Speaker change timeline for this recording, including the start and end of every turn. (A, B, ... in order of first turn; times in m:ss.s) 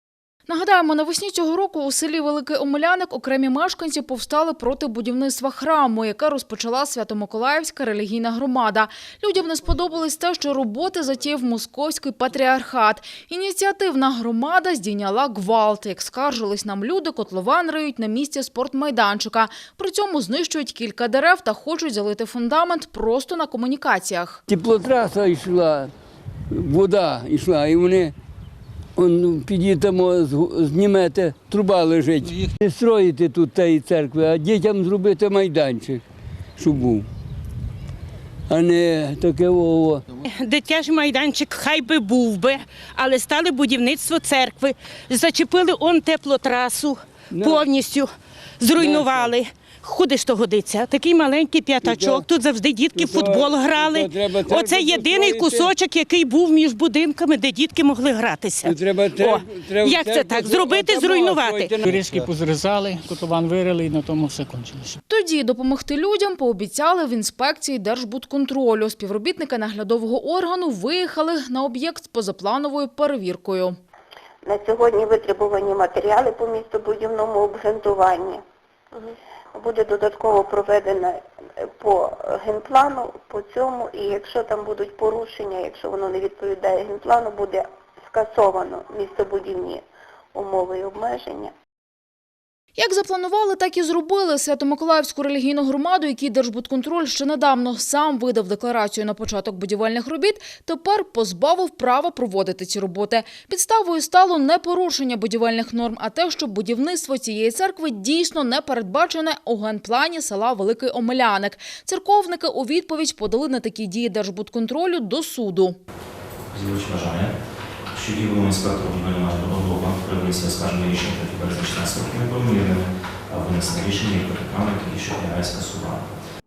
0:00.5-0:24.4 A
0:24.5-0:25.9 B
0:26.5-0:28.1 B
0:29.0-0:36.0 B
0:36.6-0:37.1 B
0:38.5-0:40.0 B
0:40.2-1:01.8 C
0:47.3-0:47.7 B
0:48.7-0:49.3 B
0:51.8-0:52.3 B
0:52.9-0:55.7 B
0:58.6-1:02.3 B
1:01.8-1:05.0 D
1:05.1-1:13.8 A
1:14.4-1:18.4 E
1:19.0-1:29.8 E
1:30.3-1:31.5 E
1:32.8-1:55.8 A
1:56.5-1:57.3 F
1:57.9-2:06.1 F